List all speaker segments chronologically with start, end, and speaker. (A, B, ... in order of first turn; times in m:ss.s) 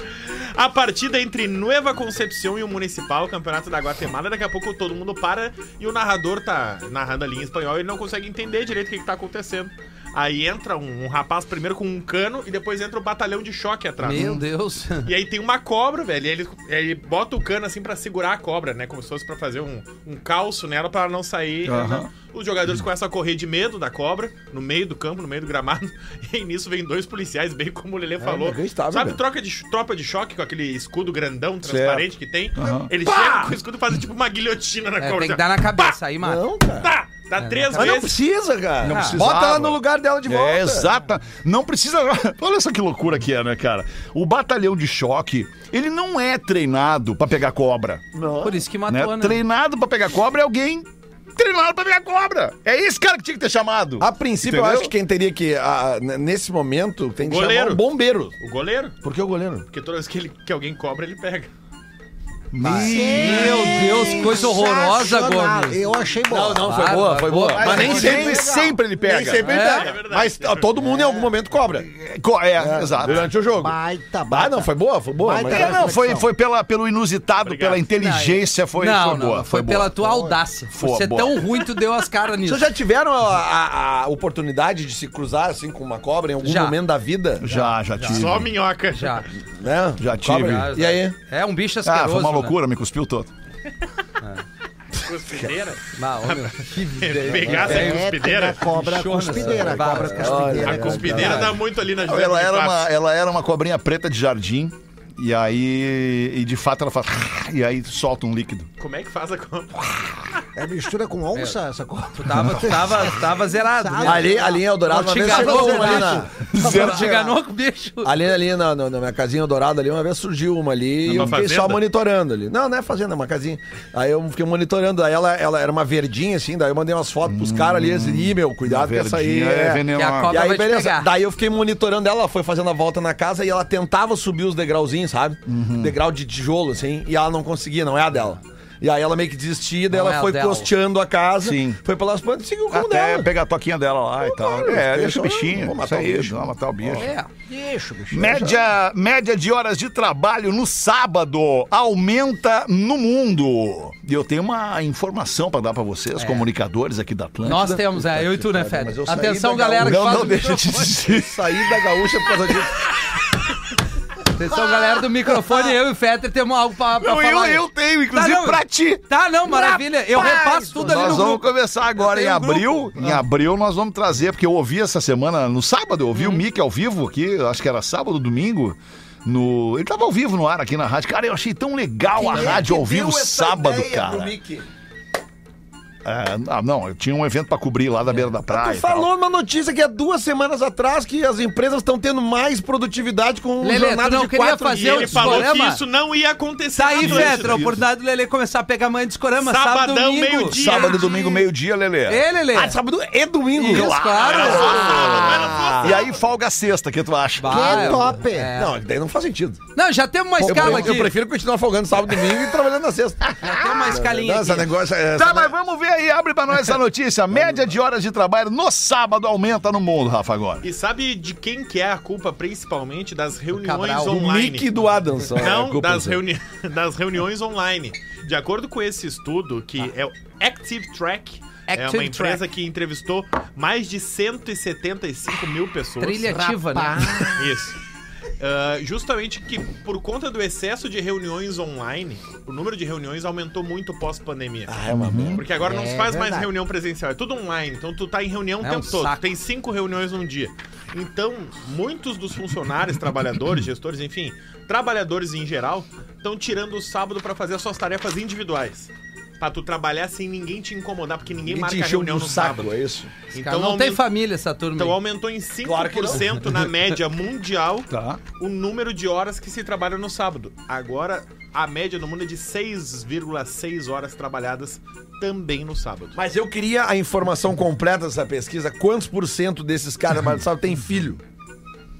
0:00.5-0:14.4 A
0:14.0-0:15.1 B
0:14.1-0:14.4 C
0:15.0-0:36.0 A
0:21.6-0:22.1 C
0:28.2-0:29.2 D
0:31.6-0:32.9 C
0:33.0-0:33.5 D
0:35.0-0:36.4 B
0:36.2-0:36.9 D
0:36.8-0:38.2 A
0:37.4-0:37.9 B
0:37.7-0:40.9 D
0:38.8-0:48.0 C
0:38.9-0:39.2 B
0:48.1-0:48.6 D
0:48.4-0:49.4 B
0:48.9-0:54.9 C
0:54.0-0:58.3 D
0:57.2-0:57.8 A
0:58.4-0:59.0 A
0:59.0-0:59.7 D
0:59.7-1:01.5 A
1:02.5-1:04.1 C
1:02.6-1:05.8 B
1:02.6-1:06.9 E
1:03.1-1:04.2 D
1:06.3-1:08.5 D
1:06.6-1:08.0 B
1:07.5-1:09.5 C
1:07.6-1:09.2 E
1:09.0-1:11.9 D
1:09.4-1:09.9 B
1:09.8-1:10.7 A
1:10.9-1:11.2 E
1:11.8-1:13.3 C
1:12.6-1:13.8 D
1:13.5-1:16.3 E
1:14.3-1:15.8 D
1:15.5-1:20.0 C
1:17.4-1:17.8 A
1:18.0-1:22.7 B
1:20.7-1:21.5 C
1:22.4-1:27.6 D
1:26.4-1:26.8 B
1:27.4-1:28.5 C
1:28.0-1:29.3 A
1:28.9-1:29.3 B
1:29.6-1:31.2 D
1:30.0-1:30.7 C
1:30.4-1:32.6 B
1:31.8-1:33.3 C
1:35.0-1:38.7 A
1:36.0-1:38.1 B
1:37.3-1:38.0 D
1:37.6-1:41.5 E
1:38.7-1:41.5 B
1:39.2-1:41.5 D
1:40.6-1:42.9 A
1:42.0-1:48.7 C
1:48.8-1:50.0 A
1:50.6-1:57.4 E
1:52.1-1:58.2 B
1:54.0-1:56.4 D
1:56.4-1:57.2 C
1:58.0-2:23.3 D
2:01.1-2:01.4 C
2:01.1-2:01.8 A
2:07.2-2:10.4 C
2:09.9-2:11.1 B
2:15.5-2:16.0 C
2:19.9-2:20.7 B
2:21.4-2:21.8 C
2:22.7-2:27.1 C
2:24.2-2:26.4 D
2:27.0-2:27.3 B
2:27.5-2:28.6 E
2:28.1-2:37.8 C
2:36.2-2:36.5 B
2:37.4-2:40.9 B
2:37.6-2:40.5 D
2:39.8-2:41.8 C
2:41.1-2:42.8 D
2:44.3-2:53.2 B
2:47.0-2:49.0 C
2:49.5-2:51.4 E
2:50.8-3:04.3 C
2:56.2-2:56.4 B
3:02.3-3:04.7 D
3:02.3-3:02.6 E
3:02.3-3:02.6 B
3:06.0-3:09.1 C
3:08.5-3:15.5 D
3:13.6-3:15.8 B
3:14.8-3:17.8 A
3:16.8-3:21.2 B
3:17.0-3:17.8 C
3:19.4-3:21.2 A
3:20.5-3:22.2 C
3:22.1-3:22.8 B
3:22.5-3:26.0 D
3:23.6-3:24.8 B
3:23.6-3:28.2 C
3:24.2-3:26.2 A
3:25.0-3:25.4 E
3:27.4-3:28.8 B
3:27.4-3:28.5 E
3:28.5-3:29.6 D
3:29.8-3:31.2 B
3:30.4-3:35.5 D
3:30.5-3:30.8 C
3:33.4-3:33.6 C
3:33.4-3:34.7 B
3:35.1-3:40.6 C
3:37.3-3:37.6 D
3:40.6-3:44.7 A
3:43.5-3:44.2 B
3:44.0-3:46.2 D
3:45.3-3:56.3 A
3:51.7-3:52.4 B
3:56.0-3:57.3 B
3:56.3-3:57.6 E
3:57.3-3:57.8 A
3:58.4-4:04.7 A
4:04.7-4:05.5 D
4:04.9-4:05.4 C
4:05.4-4:22.7 A
4:05.6-4:06.5 E
4:08.6-4:09.2 B
4:21.5-4:23.1 D
4:23.3-4:24.0 A
4:23.4-4:25.0 B
4:24.8-4:36.2 A
4:25.6-4:26.3 D
4:27.9-4:28.2 C
4:36.2-4:41.2 D